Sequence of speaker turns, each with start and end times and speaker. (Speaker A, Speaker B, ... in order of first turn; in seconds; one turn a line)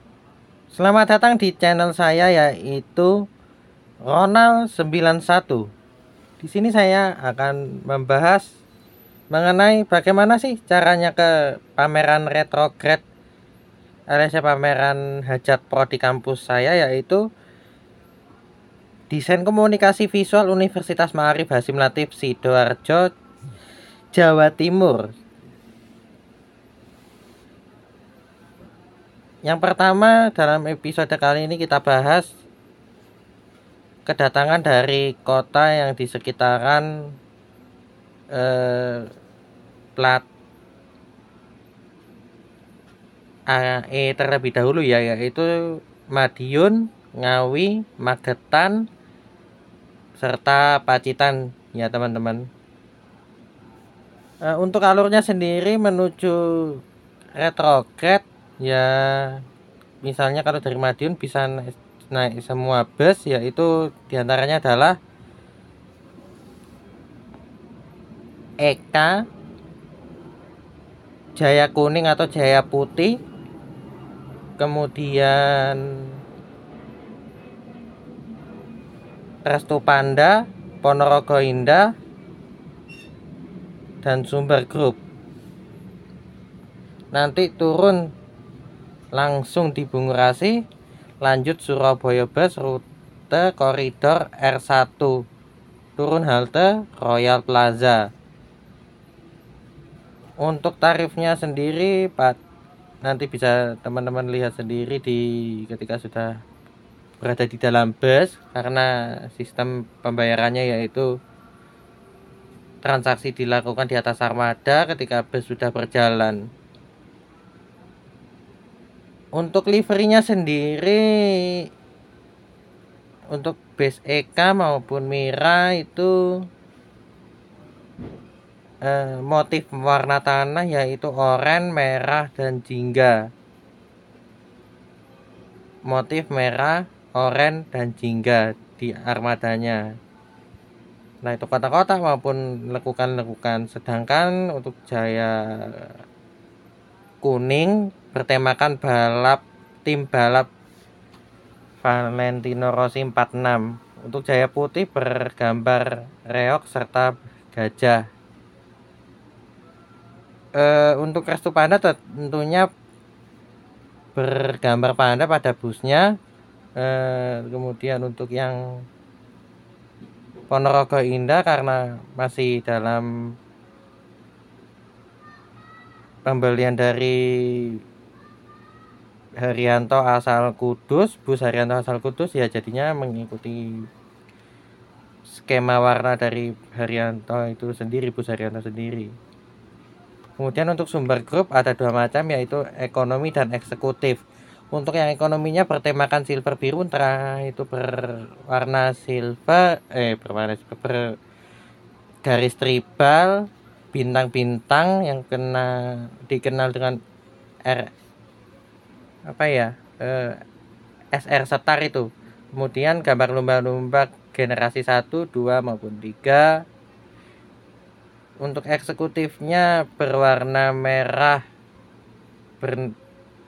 Speaker A: 0.7-3.1
Speaker A: 4.1-5.7
Speaker A: 6.4-8.5
Speaker A: 9.3-13.0
Speaker A: 14.1-17.2
Speaker A: 19.1-23.1
Speaker A: 24.1-25.1
Speaker A: 29.4-32.3
Speaker A: 34.1-36.9
Speaker A: 38.3-39.1
Speaker A: 40.0-40.2
Speaker A: 43.5-45.5
Speaker A: 46.1-48.8
Speaker A: 50.2-52.5
Speaker A: 54.5-56.8
Speaker A: 57.4-59.4
Speaker A: 60.0-65.0
Speaker A: 68.6-69.2
Speaker A: 71.4-73.2
Speaker A: 74.6-76.1
Speaker A: 79.5-81.9
Speaker A: 84.0-85.0
Speaker A: 87.1-88.0
Speaker A: 89.2-90.6
Speaker A: 91.2-95.2
Speaker A: 96.0-98.0
Speaker A: 100.4-102.4
Speaker A: 103.0-106.4
Speaker A: 107.2-111.1
Speaker A: 112.8-116.4
Speaker A: 119.4-121.7
Speaker A: 123.3-126.2
Speaker A: 128.8-133.2
Speaker A: 135.9-139.8
Speaker A: 141.2-145.9
Speaker A: 147.2-150.5
Speaker A: 151.8-158.1
Speaker A: 160.6-162.7
Speaker A: 164.2-166.1
Speaker A: 166.8-168.6
Speaker A: 170.5-173.1
Speaker A: 176.3-177.8
Speaker A: 179.4-183.8
Speaker A: 185.3-189.2
Speaker A: 190.4-201.0
Speaker A: 202.2-207.0
Speaker A: 207.7-207.9
Speaker A: 209.3-210.4
Speaker A: 211.1-216.6
Speaker A: 218.4-221.4
Speaker A: 222.6-222.9